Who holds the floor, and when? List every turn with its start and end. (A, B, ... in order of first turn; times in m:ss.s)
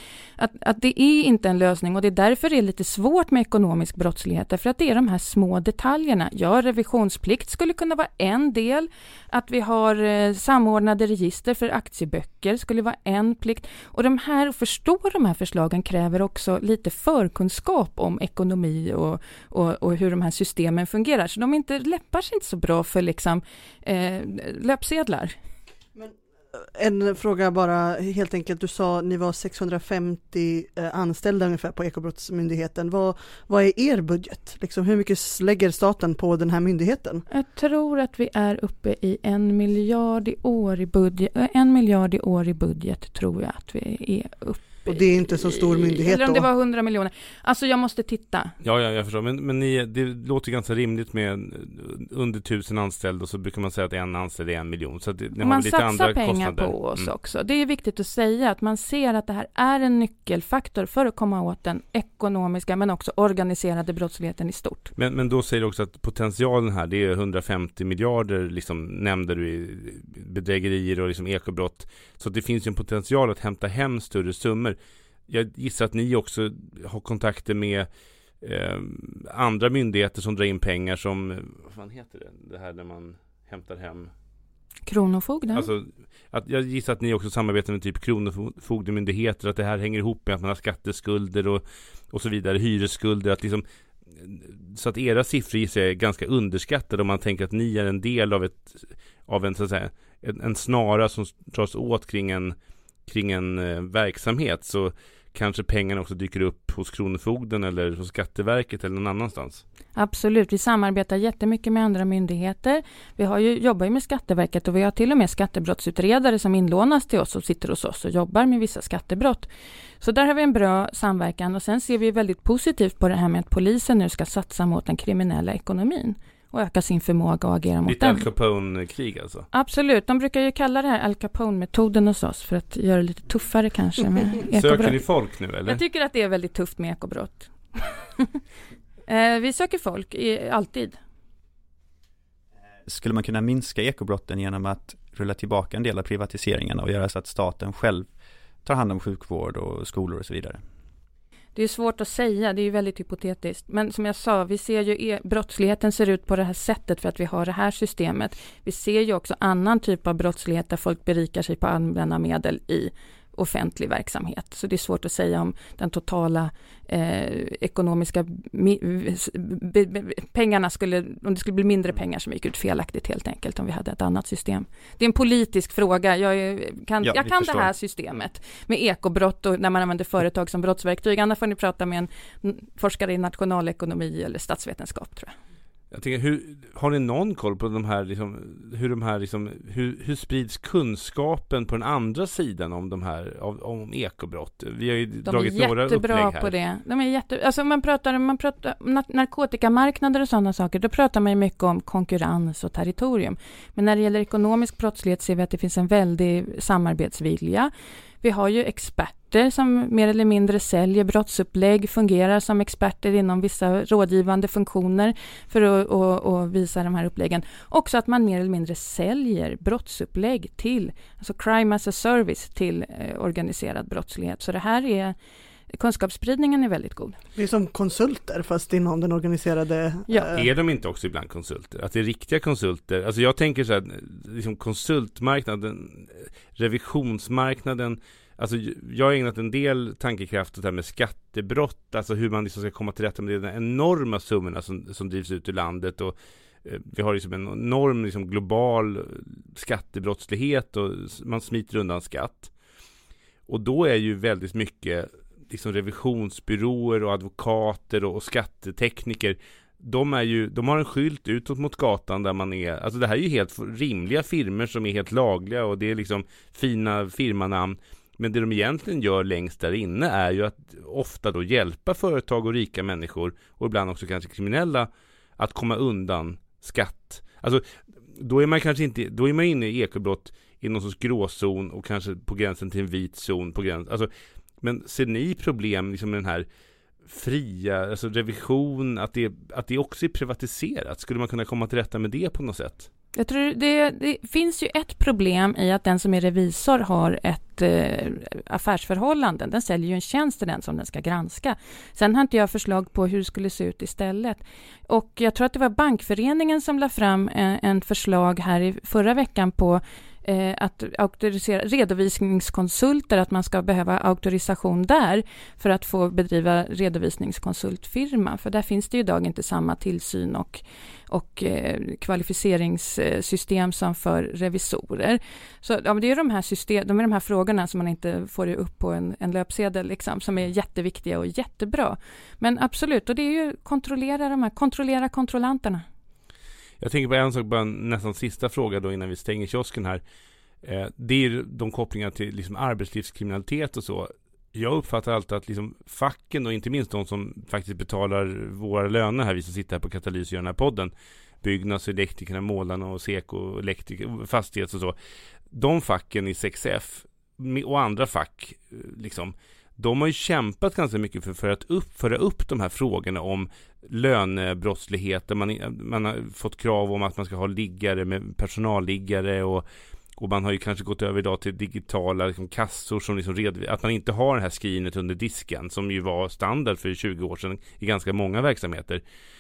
0:00.4-0:25.4 A
0:26.0-0:37.2 B
0:37.3-0:48.6 A
0:44.9-0:46.5 B
0:48.6-0:57.1 C
0:55.4-1:04.9 A
1:05.0-1:14.8 C
1:15.3-1:17.9 C
1:18.4-1:24.1 C
1:24.9-1:25.7 A
1:25.5-1:42.6 C
1:43.1-1:49.6 C
1:50.0-1:59.5 A
2:00.0-2:08.3 A
2:07.9-2:09.5 C
2:09.5-2:15.0 A
2:14.5-2:15.8 C
2:15.7-2:18.4 A
2:19.1-2:21.0 A
2:22.9-2:28.1 D
2:28.6-2:30.6 D
2:31.6-3:05.3 A
2:57.0-2:57.7 D
3:05.9-3:16.5 C
3:15.2-3:27.7 A
3:28.2-3:45.2 A
3:45.8-3:47.2 A
3:47.4-3:50.5 B
3:50.3-4:12.5 C
4:13.5-4:37.6 C
4:38.2-4:44.1 C
4:44.6-4:46.5 C
4:47.0-4:52.9 C
4:53.2-5:35.8 A
5:36.8-5:40.0 C
5:40.6-5:50.9 C
5:51.4-5:55.0 C
5:55.5-6:09.6 C
6:10.2-6:19.0 C